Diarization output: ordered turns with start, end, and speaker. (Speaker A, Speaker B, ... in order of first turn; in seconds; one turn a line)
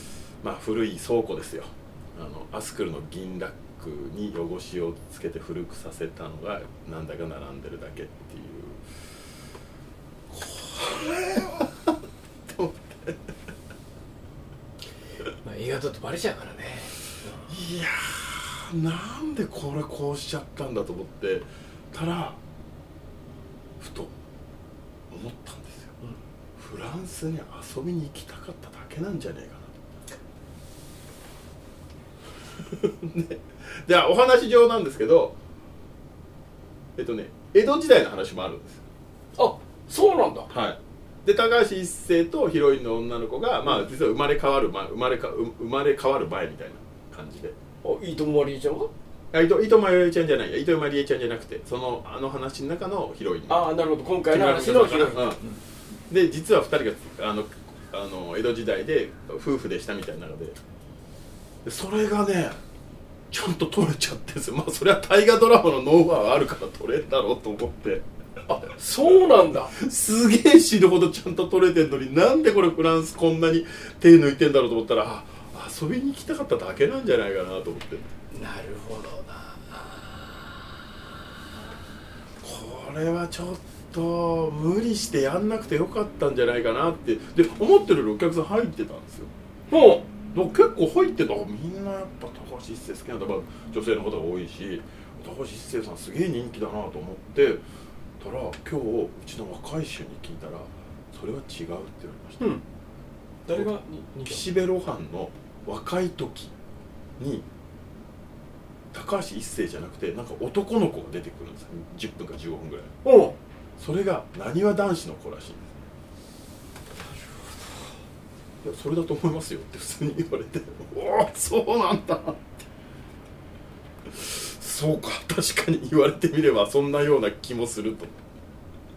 Speaker A: 0.4-8.8
Speaker A: 10.3-11.9
Speaker A: 12.5-13.2
Speaker B: 15.4-17.4
Speaker A: 17.5-22.4
Speaker A: 23.8-24.1
Speaker A: 25.1-25.9
Speaker A: 26.6-29.7
Speaker A: 32.7-35.4
Speaker A: 37.0-38.8
Speaker B: 39.4-40.5
Speaker A: 40.5-47.5
Speaker B: 47.8-48.9
Speaker A: 49.3-53.7
Speaker B: 53.5-55.6
Speaker A: 54.3-55.4
Speaker A: 56.1-60.6
Speaker A: 61.6-62.6
Speaker A: 63.3-68.0
Speaker B: 68.5-69.7
Speaker A: 69.7-78.1
Speaker B: 78.3-80.7
Speaker A: 82.4-89.3
Speaker B: 89.7-90.1
Speaker A: 90.3-97.6
Speaker A: 98.2-102.5
Speaker B: 103.5-104.4
Speaker A: 104.2-106.5
Speaker A: 107.2-107.5
Speaker A: 108.9-112.9
Speaker B: 113.0-113.4
Speaker A: 113.8-115.6
Speaker B: 117.3-117.7
Speaker A: 118.6-122.4
Speaker A: 124.1-128.2